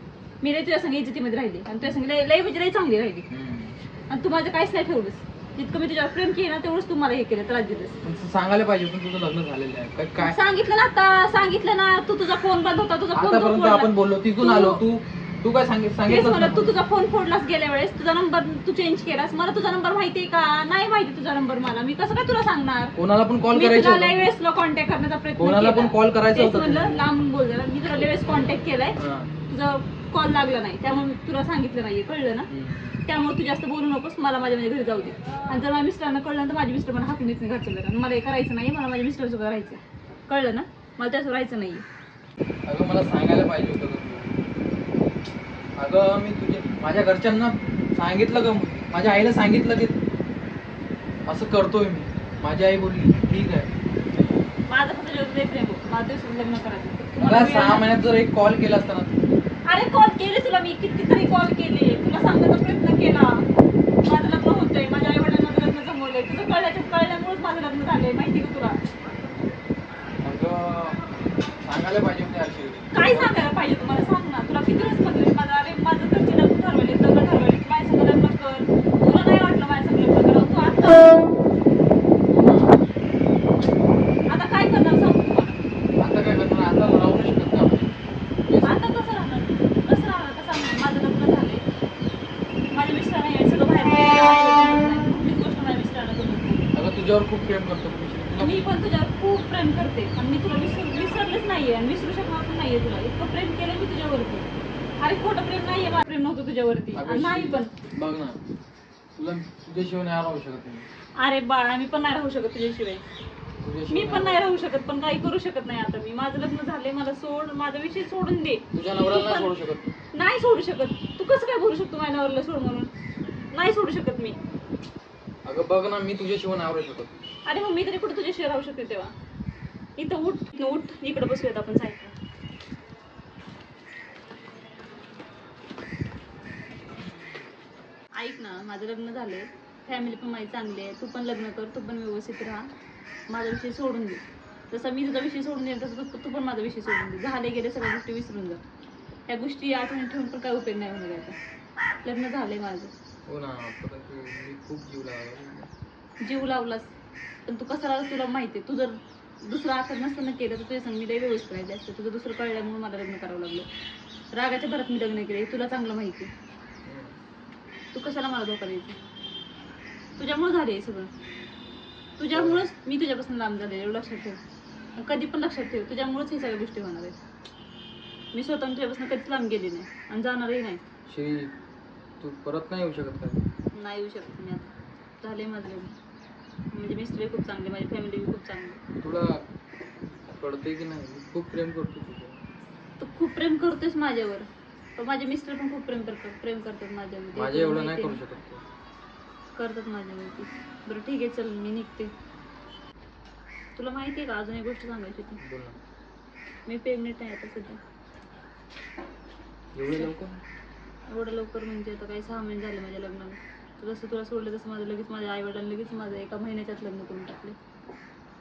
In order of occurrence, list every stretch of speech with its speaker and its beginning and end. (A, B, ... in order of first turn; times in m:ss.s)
0:00.4-0:03.3 A
0:03.3-0:03.8 B
0:04.1-0:08.0 A
0:08.0-0:10.4 B
0:10.2-0:14.8 A
0:13.2-0:16.7 B
0:16.0-0:22.9 A
0:23.0-0:24.3 B
0:23.5-0:29.0 A
0:25.4-0:27.0 B
0:29.0-0:29.3 B
0:29.5-0:32.5 A
0:32.5-0:33.0 B
0:33.1-0:41.8 A
0:42.7-0:44.3 B
0:45.8-0:50.0 B
0:51.3-0:53.7 B
0:54.7-0:57.9 A
0:57.2-0:59.1 B
0:59.7-1:03.5 A
1:04.0-1:08.8 A
1:10.2-1:11.0 B
1:11.6-1:12.9 B
1:12.9-1:21.2 A
1:22.3-1:22.8 B
1:24.3-1:25.6 A
1:26.0-1:28.0 B
1:28.5-1:28.8 B
1:28.6-1:31.6 A
1:32.7-1:36.7 A
1:36.7-1:38.7 B
1:38.4-1:44.5 A
1:45.0-1:47.7 A
1:47.0-1:48.4 B
1:49.2-1:50.9 B
1:51.2-1:53.0 A
1:53.6-1:54.4 B
1:53.9-1:59.5 A
1:58.7-1:59.9 B
2:00.1-2:02.9 A
2:03.5-2:04.4 A
2:05.4-2:07.1 B
2:07.5-2:09.1 A
2:10.0-2:12.2 A
2:18.2-2:22.7 A
2:23.3-2:28.6 A
2:29.3-2:31.4 A
2:32.0-2:32.9 A
2:33.3-2:35.7 B
2:36.2-2:36.9 A
2:37.5-2:38.9 A
2:39.5-2:43.7 A
2:44.3-2:46.3 A
2:46.9-2:47.2 B
2:47.9-2:49.0 A
2:50.2-2:51.1 A
2:52.2-2:54.4 A
2:52.3-2:52.6 B
2:55.0-2:57.2 A
2:58.3-3:00.8 A
3:01.1-3:01.5 B
3:02.2-3:03.4 B
3:03.7-3:05.9 A
3:06.7-3:08.8 A
3:09.0-3:09.4 B
3:10.4-3:12.4 B
3:13.0-3:14.5 A
3:15.0-3:18.2 A
3:17.3-3:18.6 B
3:19.6-3:22.1 A
3:23.8-3:25.4 A
3:25.4-3:25.8 B
3:26.7-3:27.8 A
3:29.8-3:30.4 B
3:31.1-3:37.6 A